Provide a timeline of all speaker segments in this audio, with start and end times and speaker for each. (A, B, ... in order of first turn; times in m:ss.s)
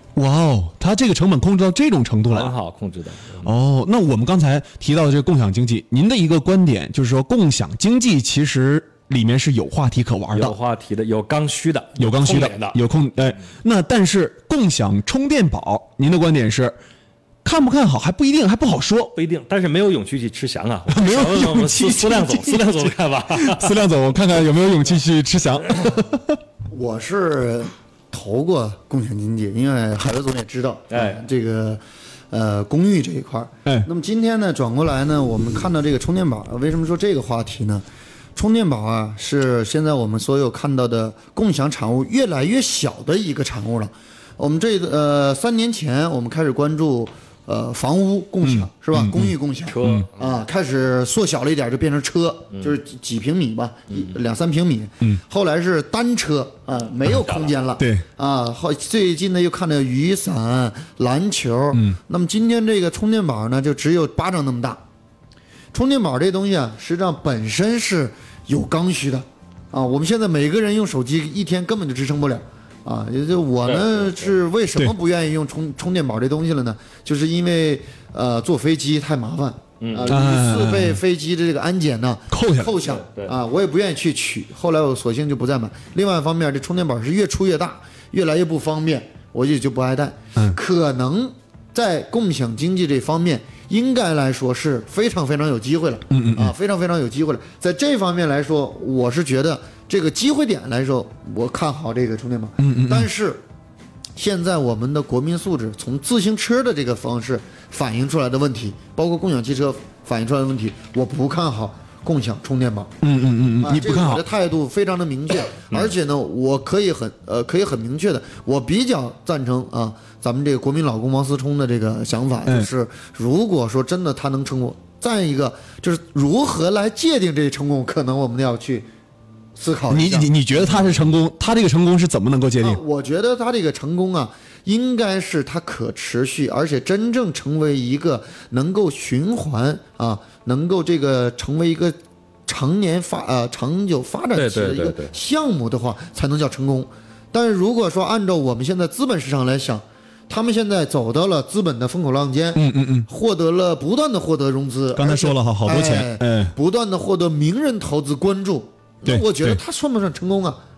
0:00.2-0:02.5 A
0:02.3-0:03.5 B
0:03.4-0:10.5 A
0:10.3-0:12.8 B
0:12.0-0:16.8 A
0:17.4-0:19.1 A
0:19.1-0:23.8 B
0:20.9-0:26.4 A
0:26.7-0:37.8 C
0:30.9-0:31.2 B
0:38.4-1:04.8 C
0:48.4-0:50.0 A
0:49.7-0:50.4 B
0:57.0-0:57.5 B
0:57.8-0:58.0 A
1:05.7-1:43.4 C
1:13.6-1:14.3 B
1:19.8-1:20.1 B
1:20.1-1:21.0 A
1:22.3-1:22.8 A
1:22.8-1:23.3 B
1:36.1-1:36.5 A
1:42.6-1:43.1 A
1:44.2-1:52.9 C
1:53.0-1:54.2 A
1:53.6-2:08.9 C
2:09.5-2:10.9 C
2:09.9-2:12.8 A
2:12.6-2:40.6 C
2:24.3-2:25.1 B
2:32.6-2:33.1 A
2:34.9-2:36.5 A
2:39.0-2:39.6 A